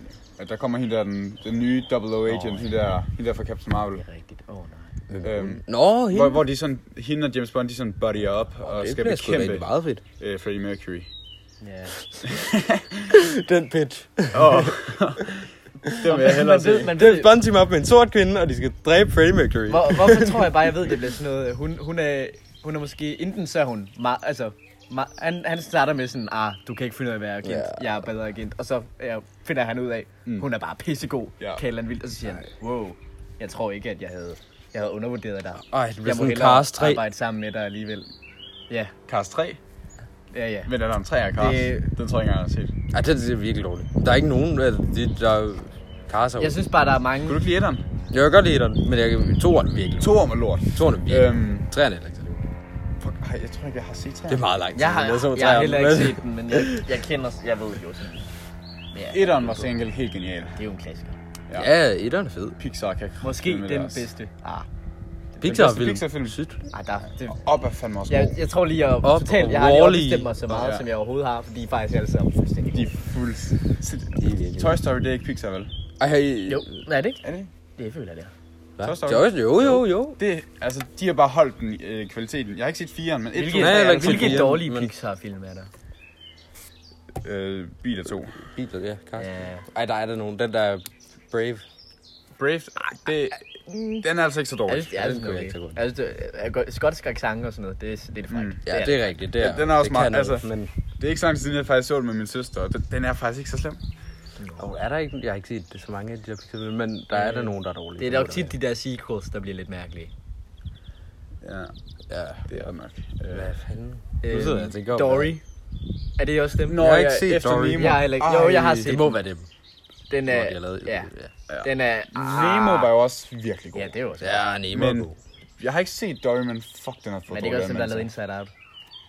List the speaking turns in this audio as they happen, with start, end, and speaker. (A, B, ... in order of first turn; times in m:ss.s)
0:00.4-0:04.0 A
0:02.3-0:02.7 B
0:04.0-0:04.9 B
0:05.1-0:06.4 C
0:05.2-0:09.7 A
0:08.6-0:10.0 C
0:10.2-0:11.1 A
0:11.6-0:12.0 B
0:12.2-0:13.1 A
0:13.1-0:14.8 C
0:14.3-0:17.0 A
0:16.0-0:17.3 B
0:16.7-0:20.7 C
0:19.7-0:38.1 B
0:27.4-0:27.8 C
0:35.7-0:37.0 C
0:39.1-0:39.6 A
0:40.3-0:40.7 B
0:40.6-0:42.7 A
0:41.4-0:41.9 B
0:42.9-0:46.6 C
0:46.4-0:47.5 B
0:47.3-0:47.8 A
0:48.1-0:50.2 C
0:50.0-0:51.6 A
0:50.7-0:52.4 C
0:53.0-0:54.4 A
0:54.3-0:56.8 C
0:54.7-0:58.2 B
0:58.9-0:59.7 B
0:59.1-1:00.6 A
1:00.5-1:01.2 B
1:01.6-1:02.6 C
1:02.6-1:04.0 A
1:03.2-1:04.7 B
1:05.4-1:06.6 C
1:05.4-1:06.4 A
1:06.7-1:07.4 B
1:07.2-1:08.3 A
1:08.1-1:12.8 B
1:09.0-1:10.3 C
1:10.5-1:10.8 A
1:12.7-1:15.7 A
1:14.2-1:14.7 C
1:16.0-1:16.7 C
1:16.5-1:17.2 B
1:17.2-1:17.5 A
1:17.8-1:18.3 B
1:18.8-1:20.2 C
1:18.8-1:24.6 A
1:23.3-1:25.7 B
1:23.5-1:24.9 C
1:27.2-1:28.4 A
1:28.4-1:31.6 C
1:29.2-1:29.6 B
1:32.4-1:33.4 A
1:32.8-1:34.0 B
1:34.0-1:34.9 A
1:34.7-1:39.1 B
1:35.0-1:35.8 C
1:38.3-1:38.6 A
1:38.6-1:40.7 C
1:39.4-1:43.8 A
1:44.6-1:48.5 C
1:47.1-1:50.1 B
1:51.4-1:51.7 A
1:52.1-1:52.5 C
1:52.5-1:53.5 A
1:53.3-1:55.3 C
1:54.2-1:55.4 B
1:56.2-1:57.0 B
1:56.7-1:59.0 A
1:56.8-1:58.0 C
1:57.7-1:59.2 B
1:58.9-1:59.5 C
2:00.1-2:01.1 B
2:00.3-2:01.3 C
2:01.5-2:03.9 A
2:01.6-2:02.9 B
2:03.7-2:04.4 B
2:04.2-2:05.2 C
2:04.7-2:05.1 A
2:05.6-2:08.1 A
2:07.3-2:08.5 B